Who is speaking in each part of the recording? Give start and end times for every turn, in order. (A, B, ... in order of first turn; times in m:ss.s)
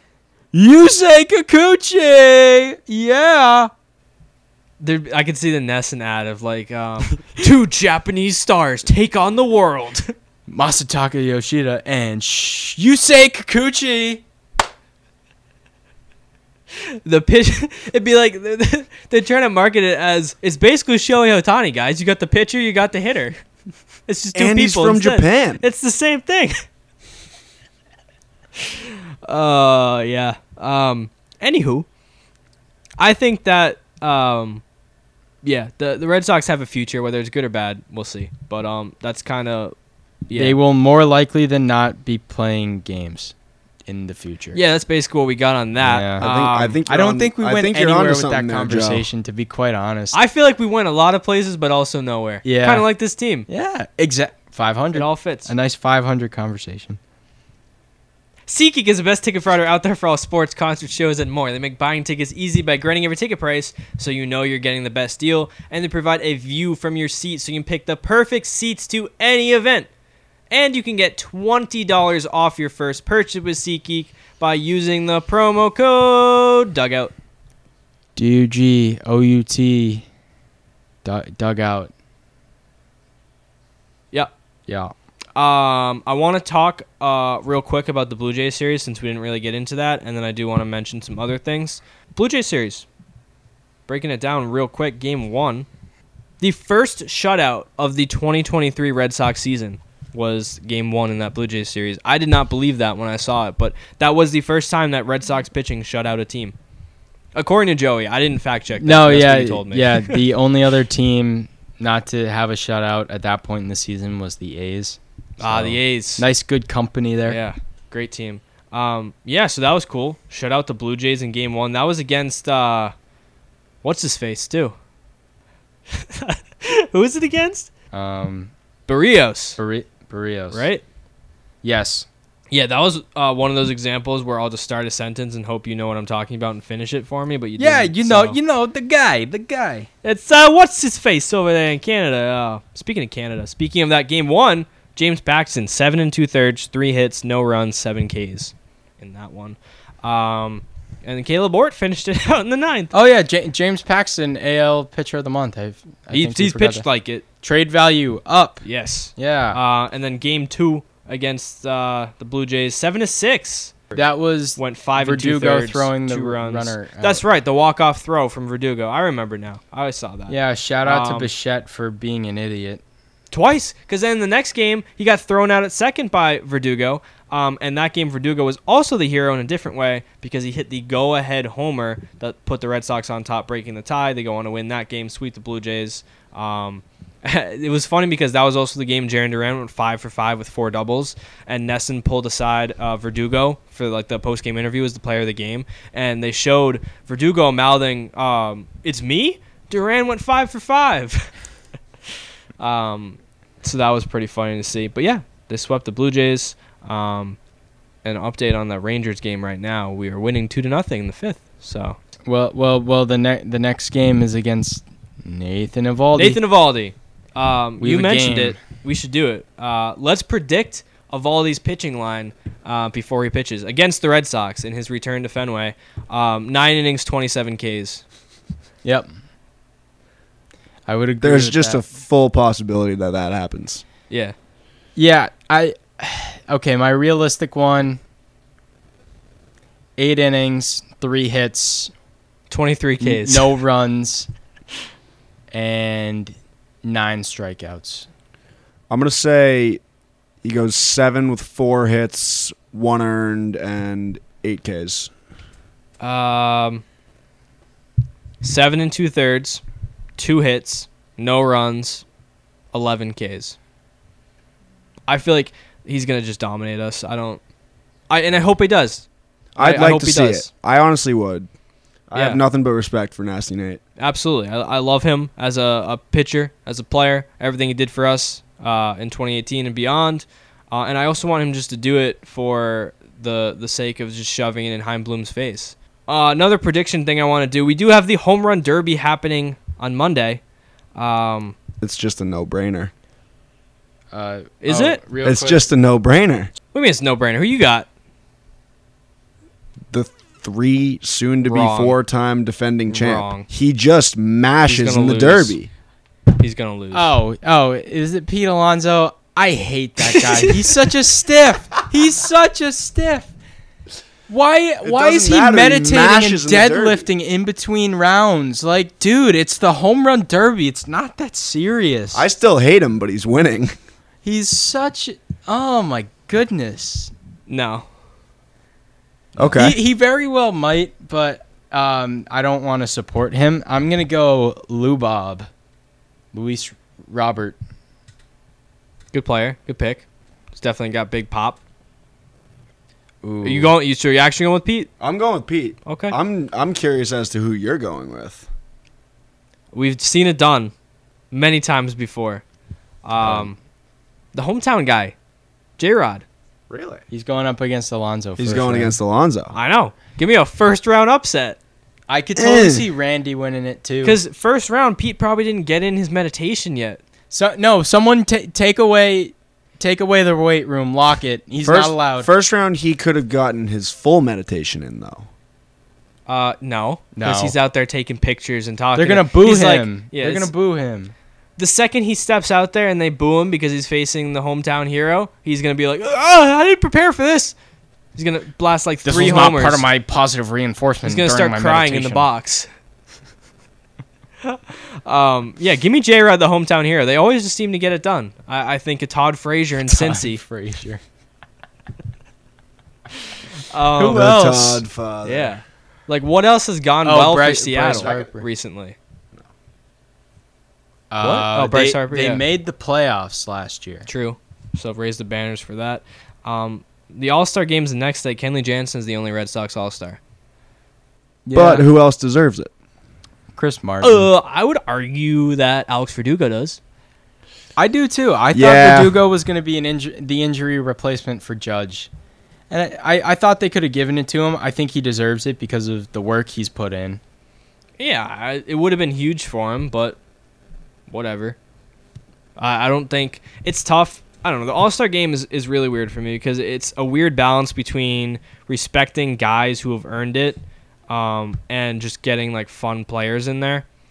0:00.5-0:03.7 A
0:04.8-0:10.1 B
0:10.5-0:14.2 A
0:16.9-0:23.4 B
0:24.1-0:26.6 B
0:24.4-0:25.6 C
0:28.6-0:31.9 B
0:33.0-0:34.6 B
0:35.4-0:39.8 B
0:40.3-0:40.6 B
0:40.4-0:43.3 A
0:43.9-0:44.6 A
0:44.5-0:46.8 B
0:45.8-0:46.2 A
0:46.2-0:49.1 C
0:46.9-0:50.2 A
0:50.1-0:53.5 B
0:52.4-0:52.9 A
0:53.5-0:57.0 A
0:54.9-0:55.5 B
0:58.5-1:09.9 B
1:10.5-1:17.1 B
1:18.2-1:20.0 A
1:21.0-1:21.9 A
1:24.7-1:24.9 A
1:25.4-1:32.9 B
1:33.9-1:35.7 B
1:36.4-1:46.6 B
1:47.4-1:50.2 B
1:48.8-1:57.4 A
1:55.4-1:56.2 B
1:57.3-2:02.9 B
2:03.8-2:04.7 B
2:05.9-2:07.7 B
2:07.9-2:08.5 A
2:08.9-2:09.6 B
2:09.6-2:10.7 A
2:10.5-2:10.8 B
2:11.6-2:12.1 A
2:12.5-2:18.4 B
2:17.6-2:19.9 A
2:20.0-2:32.9 B
2:32.9-2:36.8 A
2:36.1-2:37.2 B
2:37.4-2:38.6 A
2:38.6-2:44.0 B
2:39.2-2:39.6 A
2:44.0-2:47.2 A
2:44.6-2:51.3 B
2:50.3-2:52.8 A
2:53.3-3:21.3 B
3:22.6-3:27.4 B
3:28.0-3:32.0 B
3:32.3-3:36.4 A
3:36.2-3:48.0 B
3:37.8-3:38.6 A
3:48.8-3:49.1 A
3:50.9-3:51.8 A
3:51.2-3:53.8 C
3:54.1-3:54.4 B
3:55.0-3:58.0 A
4:00.0-4:01.9 A
4:02.5-4:03.6 B
4:03.0-4:04.3 A
4:05.5-4:08.1 A
4:08.9-4:09.8 C
4:10.4-4:15.1 C
4:16.0-4:16.8 B
4:18.4-4:19.6 B
4:20.2-4:22.0 B
4:22.7-4:23.6 B
4:25.1-4:27.4 B
4:28.1-4:30.5 B
4:29.6-4:31.5 C
4:32.1-4:33.8 C
4:32.2-4:32.4 B
4:34.0-4:50.4 B
4:51.0-4:51.6 B
4:51.8-4:52.9 C
4:54.1-4:55.7 A
4:54.6-4:55.0 B
4:55.2-4:56.5 C
4:56.7-4:57.9 B
4:59.9-5:05.7 C
5:01.4-5:02.0 B
5:02.9-5:03.5 B
5:04.7-5:05.6 B
5:06.4-5:07.2 B
5:06.9-5:13.3 A
5:14.3-5:22.2 A
5:14.8-5:17.0 C
5:22.1-5:23.8 C
5:24.2-5:27.1 A
5:27.5-5:27.9 B
5:29.4-5:29.8 C
5:29.6-5:35.5 A
5:36.3-5:37.6 A
5:39.1-5:40.0 B
5:40.6-5:41.6 B
5:43.2-5:43.7 A
5:43.4-5:44.9 B
5:45.0-5:48.5 C
5:45.9-5:46.2 B
5:49.7-5:50.7 B
5:51.3-5:52.4 B
5:53.0-5:53.6 B
5:53.2-5:53.5 C
5:54.3-5:55.2 B
5:55.8-5:56.2 B
5:56.7-5:57.0 C
5:57.1-5:58.9 A
5:58.4-5:59.5 C
5:59.5-6:01.6 B
6:02.1-6:04.2 A
6:02.4-6:02.8 C
6:04.0-6:07.0 B
6:07.3-6:12.3 A
6:11.6-6:15.3 C
6:16.3-6:20.5 B
6:17.2-6:17.6 A
6:19.0-6:21.1 A
6:21.6-6:27.6 B
6:28.2-6:29.8 B
6:29.0-6:32.3 A
6:31.0-6:32.7 B
6:34.4-6:40.4 B
6:39.8-6:41.0 A
6:43.7-6:44.3 B
6:44.0-6:44.8 A
6:44.1-6:45.5 C
6:45.2-6:49.0 B
6:47.0-6:48.4 A
6:51.1-6:54.1 A
6:51.2-6:52.4 B
6:54.1-7:00.2 B
7:01.5-7:01.8 A
7:01.5-7:02.7 C
7:03.6-7:04.3 A
7:04.0-7:06.8 B
7:07.8-7:12.1 A
7:08.5-7:09.2 C
7:12.7-7:17.2 A
7:18.0-7:20.2 B
7:21.1-7:21.6 B
7:22.6-7:33.8 B